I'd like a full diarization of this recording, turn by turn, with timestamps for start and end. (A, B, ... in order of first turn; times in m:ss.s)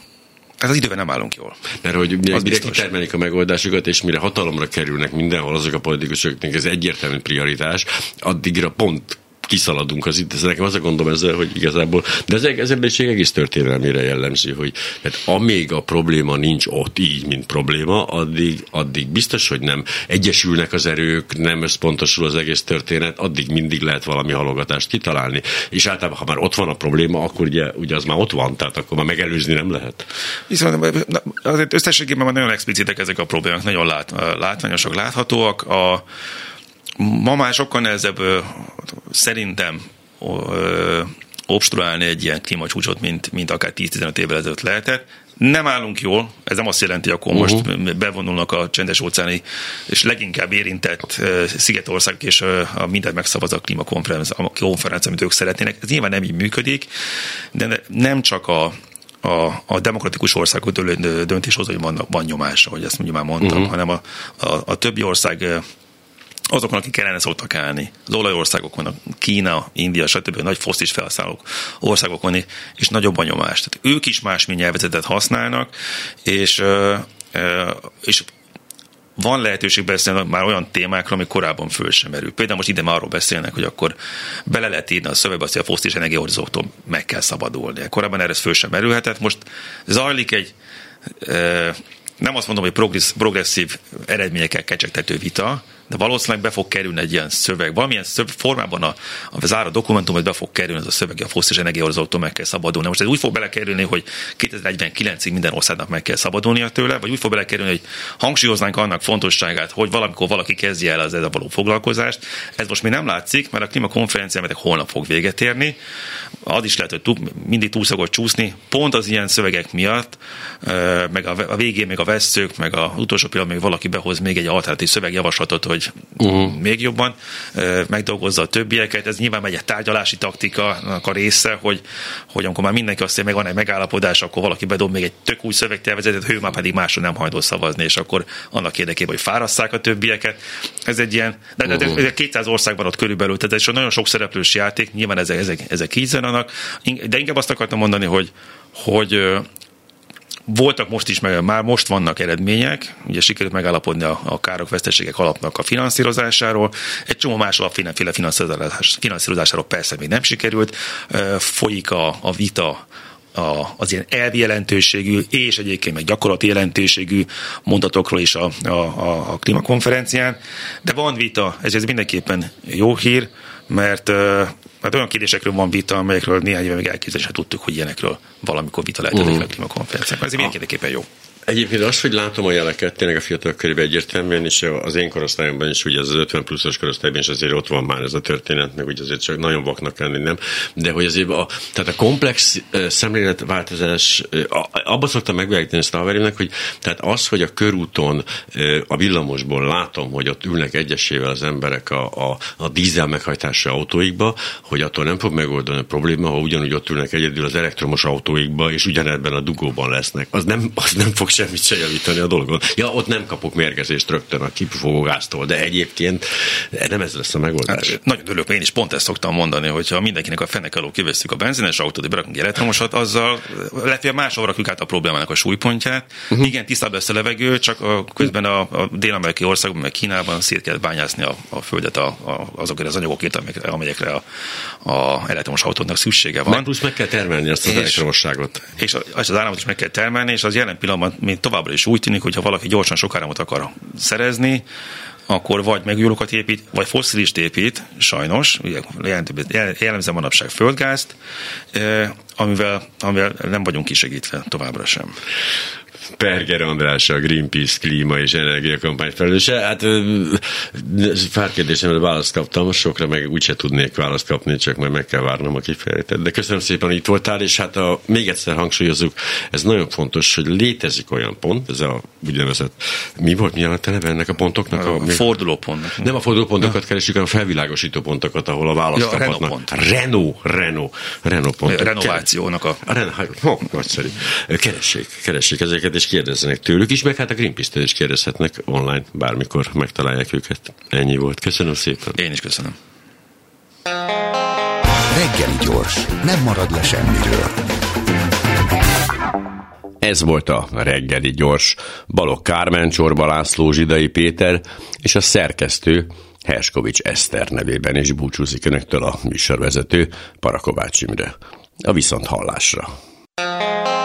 0:00.6-0:01.7 A
0:01.8-0:30.0 B
0:02.3-0:02.9 A
0:30.5-0:36.0 A
0:37.0-0:56.9 A
0:47.4-0:47.6 B
0:57.5-1:05.6 A
1:03.4-1:03.7 B
1:06.5-1:15.7 A
1:16.2-1:18.3 A
1:19.2-1:30.5 A
1:31.2-1:55.8 A
1:56.4-2:29.5 A
2:06.2-2:06.5 B
2:30.5-3:01.1 A
3:01.5-3:38.0 B
3:37.7-3:54.2 A
3:54.8-3:56.7 A
3:56.5-3:58.7 B
3:57.6-3:58.0 A
3:58.8-4:04.6 A
4:05.3-4:11.2 A
4:11.7-4:15.2 A
4:16.2-4:35.2 B
4:34.7-4:36.1 A
4:36.0-4:42.3 B
4:39.0-4:39.8 A
4:41.6-4:42.8 A
4:42.8-4:52.2 B
4:52.2-4:52.8 A
4:55.1-4:57.7 C
5:00.0-5:12.9 B